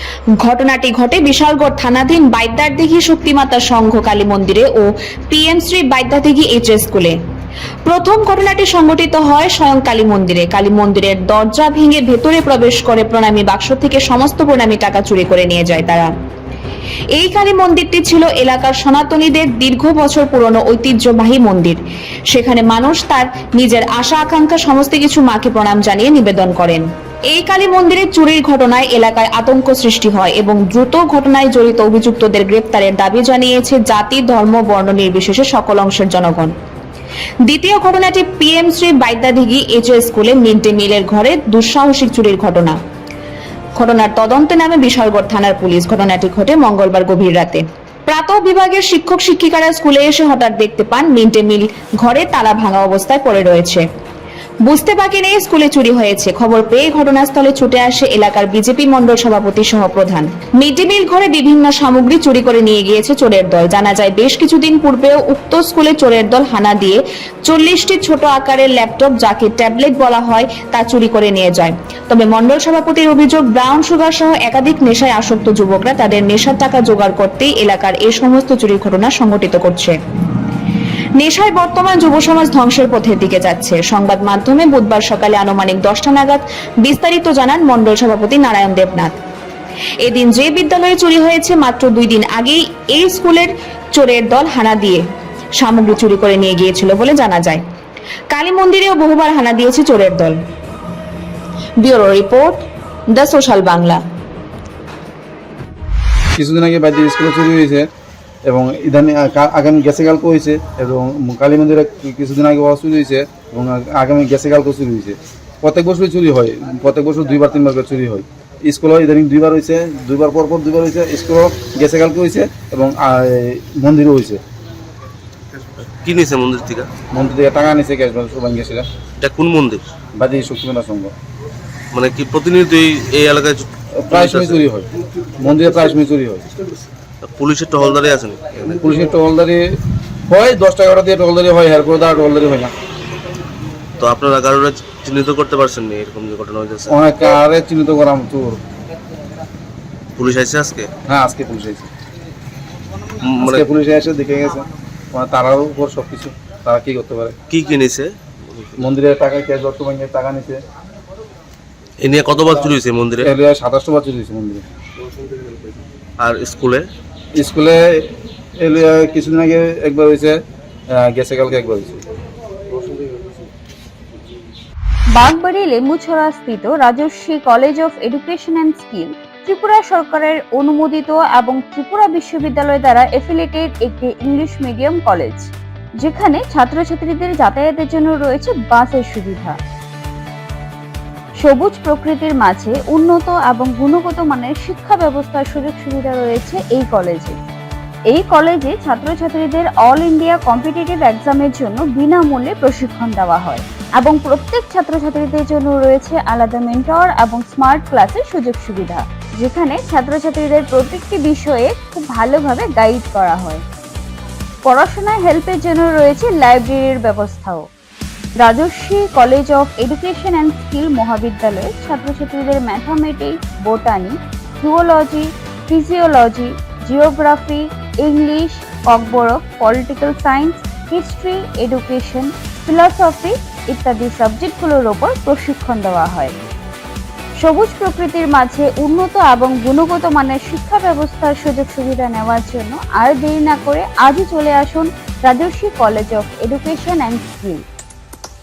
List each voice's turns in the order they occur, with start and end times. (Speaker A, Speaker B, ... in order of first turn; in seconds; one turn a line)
Speaker A: 0.4-7.1
Speaker A: 7.8-16.1
Speaker A: 17.1-21.8
Speaker A: 22.3-36.5
Speaker A: 37.5-42.8
Speaker A: 43.8-53.8
Speaker A: 54.6-80.0
Speaker A: 81.2-89.1
Speaker A: 90.0-95.0
Speaker A: 95.6-97.6
Speaker A: 98.3-100.4
Speaker A: 101.8-102.6
Speaker A: 103.1-104.0
Speaker B: 106.3-107.8
Speaker B: 108.5-124.4
Speaker C: 125.8-126.9
Speaker B: 127.1-128.9
Speaker C: 129.2-129.8
Speaker B: 130.2-131.1
Speaker C: 131.9-134.6
Speaker B: 134.0-136.5
Speaker C: 137.2-138.9
Speaker B: 138.6-139.7
Speaker B: 140.3-142.7
Speaker C: 144.0-146.9
Speaker B: 146.9-148.6
Speaker C: 150.2-150.9
Speaker B: 151.1-151.9
Speaker C: 153.2-153.7
Speaker B: 153.4-157.4
Speaker C: 157.5-158.8
Speaker B: 158.8-160.6
Speaker C: 162.0-163.3
Speaker B: 163.2-164.6
Speaker C: 165.0-165.6
Speaker C: 166.2-166.8
Speaker B: 167.3-170.4
Speaker B: 170.9-172.0
Speaker C: 172.8-173.1
Speaker D: 175.1-189.6
Speaker D: 191.4-197.4
Speaker D: 198.1-213.6
Speaker D: 214.6-217.7
Speaker D: 218.4-236.3
Speaker D: 237.4-247.6